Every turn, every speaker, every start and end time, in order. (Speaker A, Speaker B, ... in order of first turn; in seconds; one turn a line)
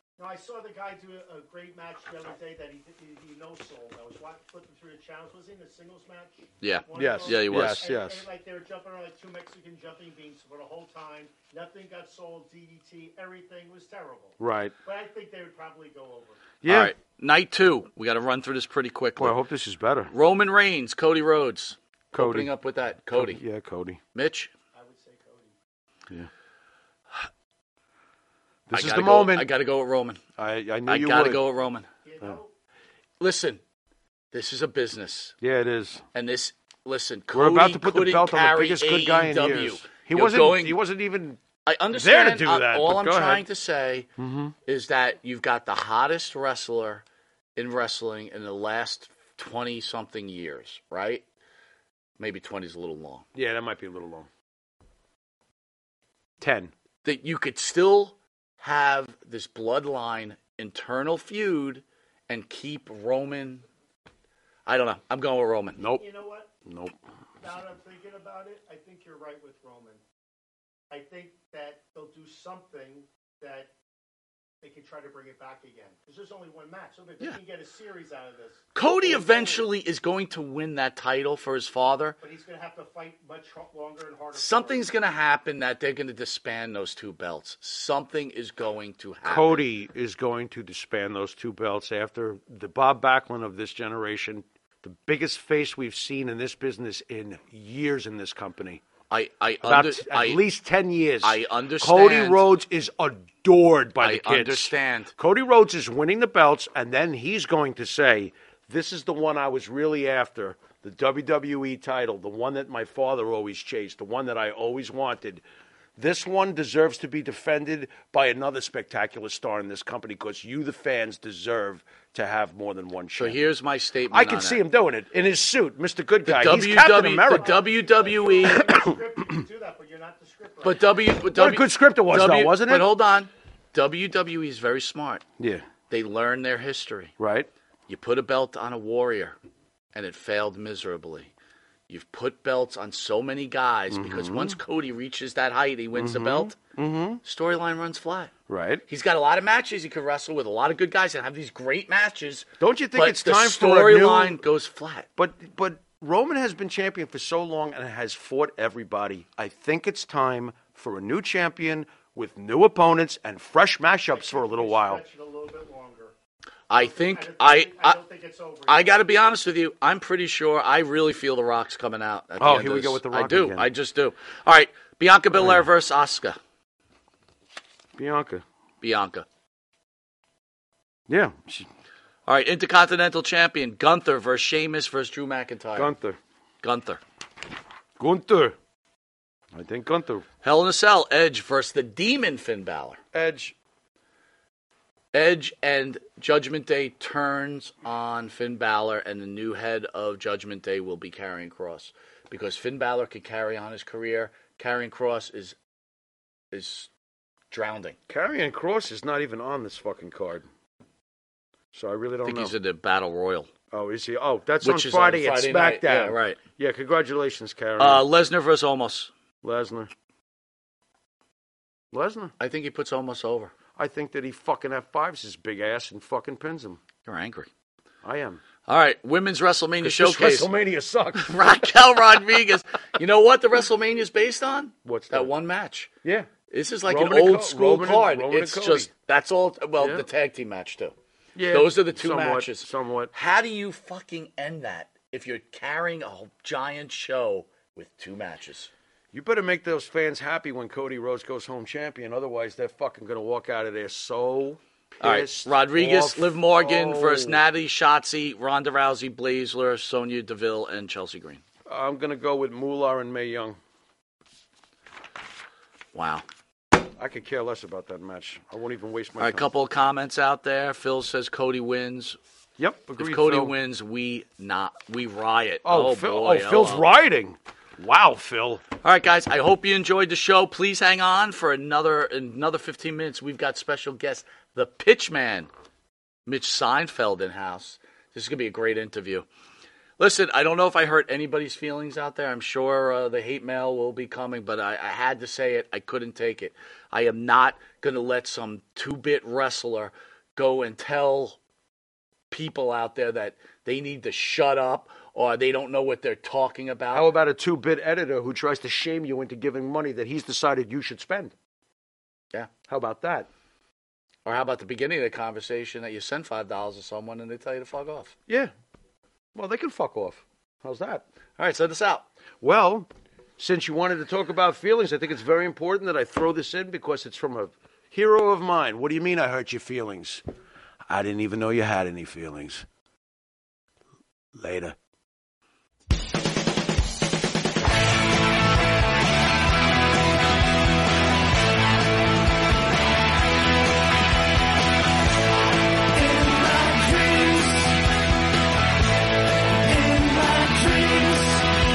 Speaker A: 0.2-16.6
Speaker B: 6.6-7.8
Speaker C: 6.9-8.3
Speaker C: 14.4-14.7
Speaker C: 16.6-16.9
Speaker B: 16.6-19.4
Speaker C: 19.2-20.1
Speaker B: 20.1-23.4
Speaker C: 22.1-22.5
Speaker C: 23.1-24.0
Speaker B: 24.1-24.5
Speaker A: 24.7-25.5
Speaker C: 28.7-29.5
Speaker B: 28.7-30.2
Speaker C: 30.4-31.4
Speaker B: 30.9-31.9
Speaker A: 32.0-32.5
Speaker B: 33.2-33.6
Speaker B: 34.3-35.3
Speaker C: 35.4-36.0
Speaker B: 36.1-40.8
Speaker C: 37.3-41.4
Speaker B: 41.6-44.1
Speaker C: 41.9-43.4
Speaker C: 44.2-44.5
Speaker B: 44.6-47.0
Speaker B: 47.5-51.2
Speaker B: 52.2-53.2
Speaker C: 53.3-54.3
Speaker C: 56.4-56.7
Speaker B: 57.0-63.6
Speaker B: 64.7-65.8
Speaker C: 65.8-66.0
Speaker A: 65.9-66.5
Speaker C: 66.6-66.9
Speaker A: 67.4-70.0
Speaker A: 70.9-73.7
Speaker A: 74.6-79.7
Speaker B: 78.7-82.2
Speaker A: 82.2-84.9
Speaker B: 84.3-89.7
Speaker C: 89.2-98.8
Speaker B: 99.1-100.4
Speaker C: 99.6-115.4
Speaker B: 101.2-102.4
Speaker B: 104.0-105.1
Speaker C: 116.0-123.4
Speaker B: 123.2-124.6
Speaker C: 124.1-127.7
Speaker B: 126.2-128.7
Speaker A: 127.3-131.0
Speaker C: 128.4-129.4
Speaker B: 130.6-135.2
Speaker C: 131.3-132.9
Speaker C: 135.4-135.6
Speaker B: 135.9-137.1
Speaker C: 137.2-137.5
Speaker B: 137.9-139.3
Speaker B: 139.9-141.3
Speaker B: 141.9-146.6
Speaker C: 143.9-144.6
Speaker C: 145.9-147.2
Speaker B: 147.2-148.3
Speaker C: 148.5-148.8
Speaker B: 148.9-155.1
Speaker C: 152.6-154.4
Speaker C: 155.2-165.0
Speaker A: 164.1-166.1
Speaker B: 166.7-168.0
Speaker A: 166.7-168.9
Speaker B: 168.7-176.4
Speaker C: 172.4-173.7
Speaker C: 175.3-175.7
Speaker C: 178.0-178.4
Speaker B: 178.8-179.2
Speaker C: 181.1-181.7
Speaker B: 182.3-185.9
Speaker C: 185.8-186.2
Speaker B: 186.6-187.0
Speaker C: 188.0-188.5
Speaker C: 189.5-190.2
Speaker B: 190.4-193.0
Speaker C: 193.1-193.5
Speaker B: 195.1-205.6
Speaker B: 206.5-206.9
Speaker B: 207.5-208.0
Speaker C: 208.1-210.4
Speaker C: 211.7-212.5
Speaker B: 212.2-213.5
Speaker C: 213.7-218.1
Speaker B: 214.6-216.4
Speaker B: 217.8-219.1
Speaker C: 219.4-219.9
Speaker C: 221.9-222.3
Speaker B: 222.4-223.5
Speaker C: 223.8-226.8
Speaker B: 227.1-227.5
Speaker C: 228.0-228.4
Speaker B: 228.7-230.5
Speaker C: 229.8-231.5
Speaker B: 231.2-235.9
Speaker C: 234.8-235.3
Speaker C: 236.0-236.3
Speaker B: 236.5-240.9
Speaker C: 236.8-238.9
Speaker C: 239.8-240.0
Speaker C: 241.3-243.1
Speaker B: 241.5-248.7
Speaker C: 249.1-257.4
Speaker B: 255.0-261.4
Speaker C: 261.7-263.6
Speaker B: 265.9-266.2
Speaker C: 267.0-269.5
Speaker B: 269.2-272.2
Speaker C: 272.6-273.5
Speaker B: 273.0-276.8
Speaker C: 275.6-278.6
Speaker B: 278.8-285.5
Speaker B: 286.2-289.2
Speaker B: 290.0-301.4
Speaker B: 302.3-307.1
Speaker C: 306.9-311.3
Speaker C: 312.7-313.3
Speaker B: 314.2-318.1
Speaker C: 319.3-321.0
Speaker B: 321.4-322.1
Speaker C: 322.4-322.9
Speaker C: 323.4-330.2
Speaker C: 330.9-332.6
Speaker C: 334.4-334.7
Speaker C: 345.9-347.8
Speaker C: 349.6-351.5